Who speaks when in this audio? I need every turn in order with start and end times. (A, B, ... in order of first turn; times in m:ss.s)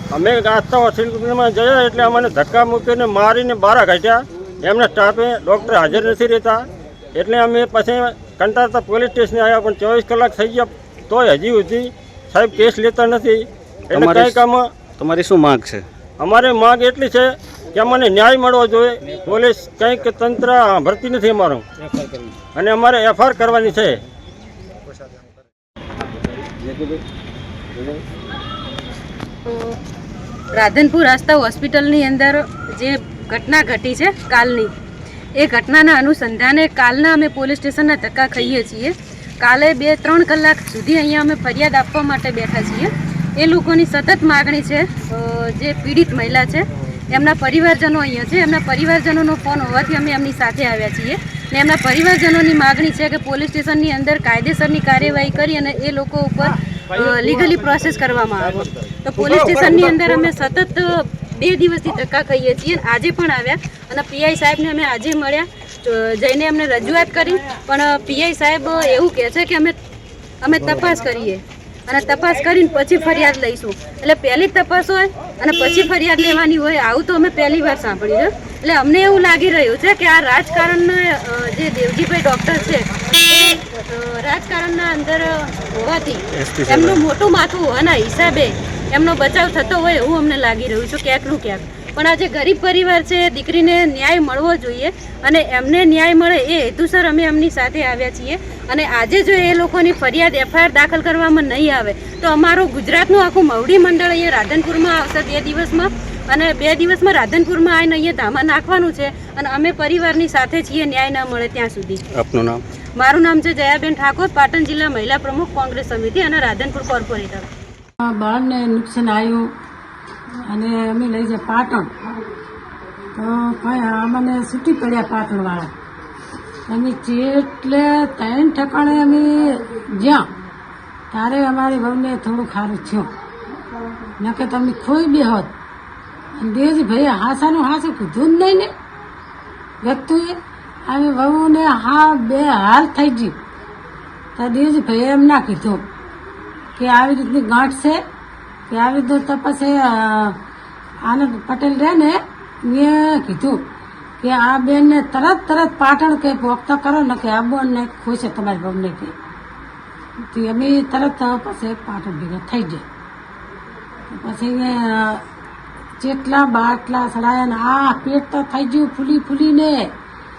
0:00.1-0:14.7 A
0:13.9-0:14.3 B
0:15.0-0:15.8 B
0:16.2-0:21.6 A
0:22.5-0:24.0 A
0:29.5-0:29.7 C
0:30.6-0:34.7 C
0:35.4-1:09.8 C
1:10.4-1:52.0 C
1:26.4-1:27.0 B
1:52.2-1:52.6 B
1:53.0-1:57.5 C
1:58.0-1:59.5 D
2:00.5-2:01.9 D
2:03.2-2:05.7 D
2:06.7-2:10.3 D
2:11.1-2:13.1 D
2:14.2-2:15.5 D
2:16.4-2:18.7 D
2:19.8-2:23.4 D
2:24.4-2:25.8 D
2:26.8-2:28.0 D
2:28.7-2:30.4 D
2:31.0-2:33.6 D
2:34.2-2:39.1 D
2:40.3-2:42.8 D
2:44.1-2:45.2 D
2:46.0-2:49.9 D